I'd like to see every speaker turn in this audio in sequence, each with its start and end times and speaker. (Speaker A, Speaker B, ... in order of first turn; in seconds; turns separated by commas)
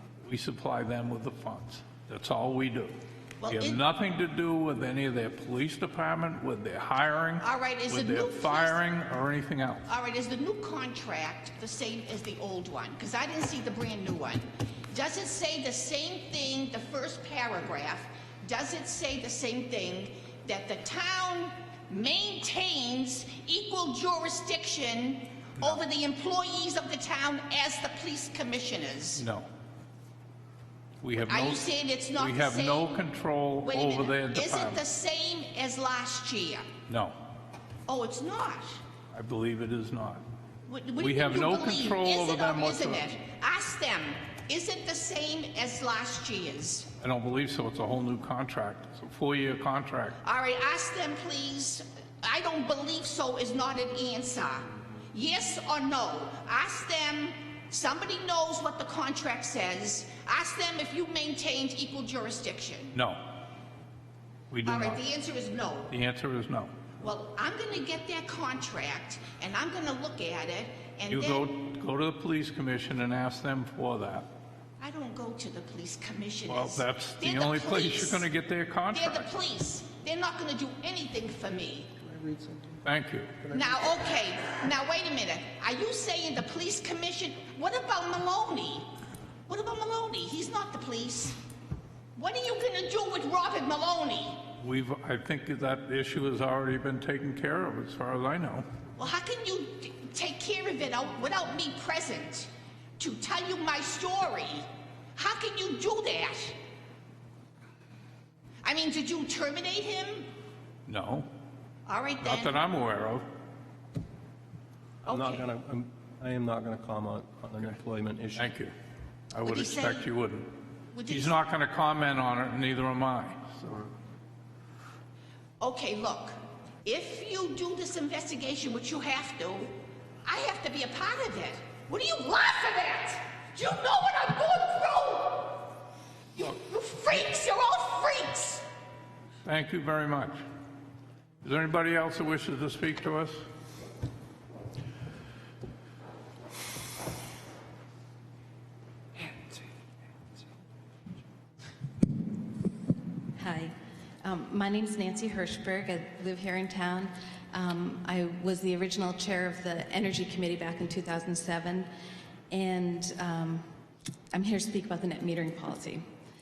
Speaker A: 0.2-9.9, Speaker B: 3.4-3.8, Speaker B: 7.4-8.8, Speaker B: 9.8-29.2, Speaker A: 29.2-29.5, Speaker A: 31.0-34.8, Speaker B: 31.2-33.0, Speaker B: 33.6-36.7, Speaker A: 36.9-37.1, Speaker B: 37.9-38.8, Speaker A: 39.1-40.2, Speaker B: 40.7-46.9, Speaker A: 41.0-43.1, Speaker A: 47.0-50.2, Speaker B: 50.2-63.0, Speaker A: 62.9-63.3, Speaker A: 64.5-65.0, Speaker B: 64.6-65.9, Speaker A: 65.9-66.7, Speaker B: 67.0-71.5, Speaker A: 71.1-74.3, Speaker B: 74.8-78.3, Speaker A: 76.5-79.3, Speaker B: 78.9-81.9, Speaker A: 82.8-83.4, Speaker B: 83.5-88.9, Speaker B: 89.5-91.4, Speaker B: 92.1-94.5, Speaker A: 94.6-98.7, Speaker B: 99.0-106.6, Speaker B: 108.6-110.3, Speaker A: 110.9-111.3, Speaker B: 111.8-112.6, Speaker A: 112.2-113.3, Speaker B: 115.0-115.5, Speaker C: 115.0-118.5, Speaker A: 118.4-118.7, Speaker A: 119.3-120.5, Speaker B: 119.4-120.1, Speaker B: 120.9-121.4, Speaker A: 121.1-123.9, Speaker B: 125.6-135.7, Speaker B: 136.3-138.6, Speaker A: 139.4-140.4, Speaker A: 141.4-143.4, Speaker D: 153.4-153.7, Speaker D: 154.2-161.9, Speaker D: 162.5-163.6, Speaker D: 164.3-166.0